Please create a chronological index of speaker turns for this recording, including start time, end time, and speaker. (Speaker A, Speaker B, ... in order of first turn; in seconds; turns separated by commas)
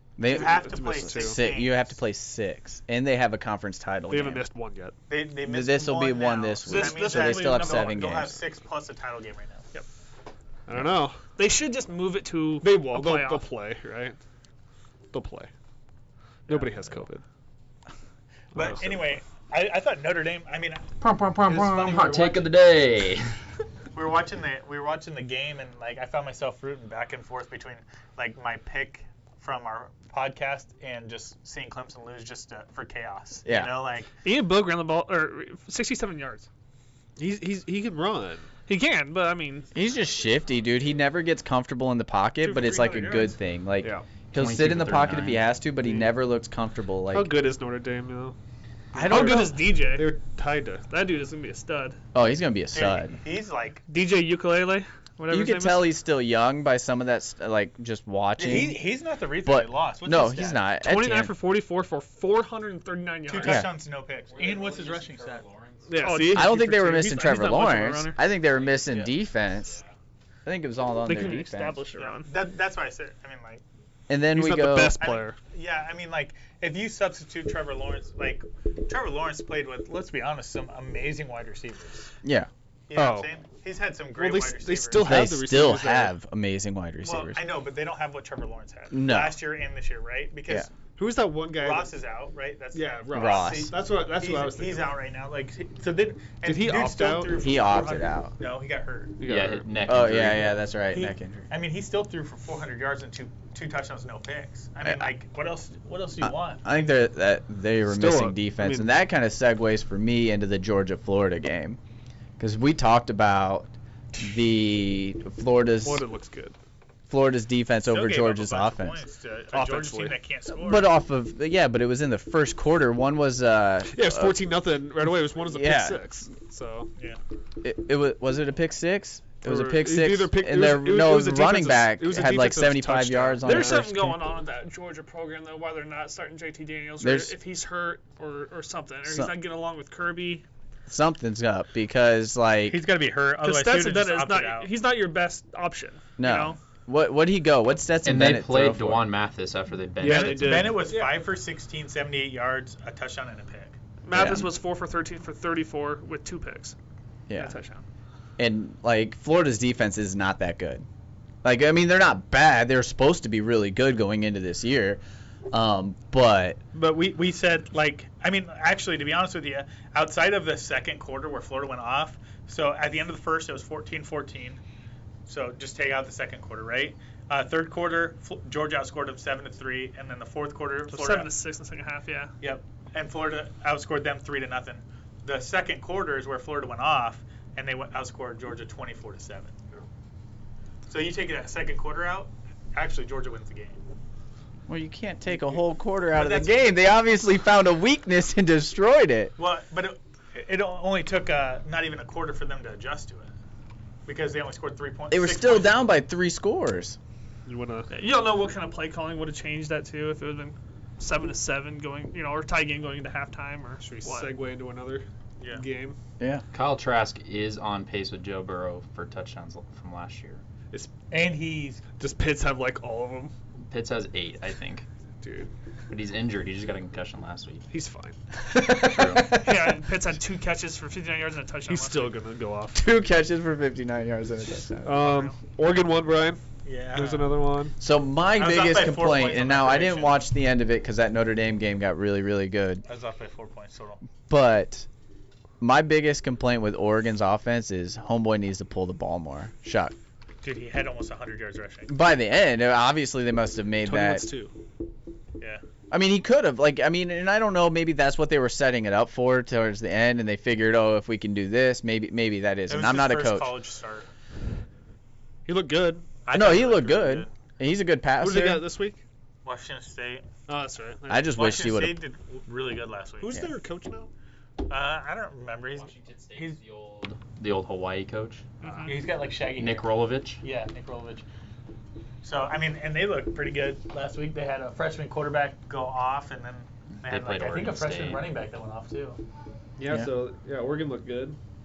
Speaker A: 0.2-4.5, Speaker B: 0.3-1.9, Speaker C: 0.3-1.4, Speaker C: 4.1-5.0, Speaker B: 5.1-9.7, Speaker A: 5.4-8.3, Speaker D: 6.7-8.0, Speaker C: 10.7-11.2, Speaker D: 11.3-13.5, Speaker C: 12.6-14.2, Speaker C: 15.1-15.5, Speaker C: 16.5-17.2, Speaker B: 16.5-16.8, Speaker B: 18.5-20.9, Speaker C: 18.6-19.0, Speaker E: 21.0-23.3, Speaker B: 21.5-22.6, Speaker B: 23.9-34.1, Speaker A: 33.5-33.8, Speaker D: 34.2-36.5, Speaker C: 37.2-38.5, Speaker D: 38.7-39.7, Speaker A: 39.7-47.3, Speaker D: 42.5-43.3, Speaker B: 42.6-43.2, Speaker C: 43.8-44.1, Speaker E: 44.3-45.4, Speaker C: 45.8-46.1, Speaker C: 47.1-48.4, Speaker A: 48.9-49.6, Speaker C: 48.9-50.9, Speaker D: 49.0-50.2, Speaker D: 50.9-52.0, Speaker A: 52.1-53.2, Speaker B: 52.7-53.9, Speaker D: 53.9-55.9, Speaker A: 55.3-58.8, Speaker B: 58.4-60.6, Speaker A: 59.4-61.3, Speaker D: 60.8-63.7, Speaker B: 63.3-65.5, Speaker A: 63.4-63.7, Speaker E: 64.3-66.0, Speaker C: 65.9-66.7, Speaker D: 66.0-68.3, Speaker A: 66.3-69.8, Speaker E: 68.5-69.9, Speaker A: 70.5-71.8, Speaker D: 71.0-72.3, Speaker B: 72.0-73.6, Speaker A: 74.1-75.0, Speaker C: 74.3-75.4, Speaker B: 75.0-82.1, Speaker A: 82.2-82.5, Speaker B: 82.9-85.3, Speaker C: 82.9-83.3, Speaker C: 84.2-86.1, Speaker A: 85.0-87.5, Speaker B: 87.0-90.7, Speaker A: 88.9-89.4, Speaker C: 91.0-92.0, Speaker B: 91.6-99.2, Speaker C: 92.7-95.0, Speaker A: 93.1-93.7, Speaker C: 96.4-97.5, Speaker A: 97.4-98.3, Speaker C: 99.2-99.7, Speaker E: 99.2-100.6, Speaker A: 99.9-101.5, Speaker B: 100.9-106.7, Speaker A: 104.8-105.1, Speaker A: 106.2-111.8, Speaker C: 107.9-108.9, Speaker A: 112.4-116.0, Speaker C: 115.8-116.6, Speaker A: 117.1-119.0, Speaker B: 117.8-121.0, Speaker C: 119.5-120.2, Speaker A: 120.5-124.4, Speaker C: 123.9-126.9, Speaker A: 125.5-126.0, Speaker A: 127.6-134.2, Speaker C: 129.4-133.9, Speaker D: 133.4-140.4, Speaker A: 137.0-137.3, Speaker A: 139.1-139.3, Speaker A: 140.9-142.8, Speaker B: 142.7-144.7, Speaker D: 143.4-146.6, Speaker A: 146.2-149.1, Speaker E: 148.1-150.8, Speaker C: 150.0-150.9, Speaker B: 150.1-153.8, Speaker D: 150.8-151.1, Speaker D: 154.0-156.8, Speaker A: 154.1-154.5, Speaker A: 157.3-157.5, Speaker D: 157.3-157.8, Speaker A: 158.4-160.9, Speaker A: 161.4-166.6, Speaker B: 166.7-174.6, Speaker B: 175.3-181.4, Speaker D: 180.9-182.3, Speaker B: 182.4-189.8, Speaker B: 190.9-193.8, Speaker A: 194.7-199.3, Speaker B: 196.1-196.8, Speaker B: 199.4-203.3, Speaker B: 204.1-205.8, Speaker A: 205.1-207.0, Speaker C: 207.5-207.9, Speaker D: 207.9-214.4, Speaker C: 213.8-216.0, Speaker B: 215.4-215.7, Speaker E: 216.5-220.4, Speaker B: 221.1-221.8, Speaker C: 222.0-223.3, Speaker E: 223.7-224.9, Speaker C: 225.2-225.5, Speaker E: 225.9-227.7, Speaker C: 227.7-228.2, Speaker A: 228.5-229.8, Speaker E: 228.7-229.3, Speaker D: 229.3-232.2, Speaker C: 231.7-232.9, Speaker A: 232.7-235.1, Speaker C: 234.8-236.4, Speaker D: 235.0-235.4, Speaker B: 236.6-237.4, Speaker C: 236.9-237.8, Speaker A: 237.8-242.8, Speaker B: 238.3-240.2, Speaker B: 242.9-244.0, Speaker A: 244.3-244.9, Speaker A: 245.6-250.0, Speaker B: 250.4-251.9, Speaker A: 251.9-254.3, Speaker C: 253.8-254.5, Speaker A: 255.9-263.6, Speaker B: 262.7-264.1, Speaker C: 265.5-266.1, Speaker B: 266.2-267.3, Speaker A: 266.3-268.7, Speaker C: 268.2-269.0, Speaker B: 269.4-270.3, Speaker C: 270.5-271.4, Speaker A: 271.1-272.0, Speaker B: 271.4-273.4, Speaker C: 273.2-274.1, Speaker B: 274.7-276.6, Speaker E: 275.7-278.4, Speaker D: 278.6-279.0, Speaker C: 278.6-278.9, Speaker B: 278.9-281.2, Speaker E: 279.5-280.4, Speaker B: 282.2-289.2, Speaker E: 287.0-288.3, Speaker C: 289.8-291.4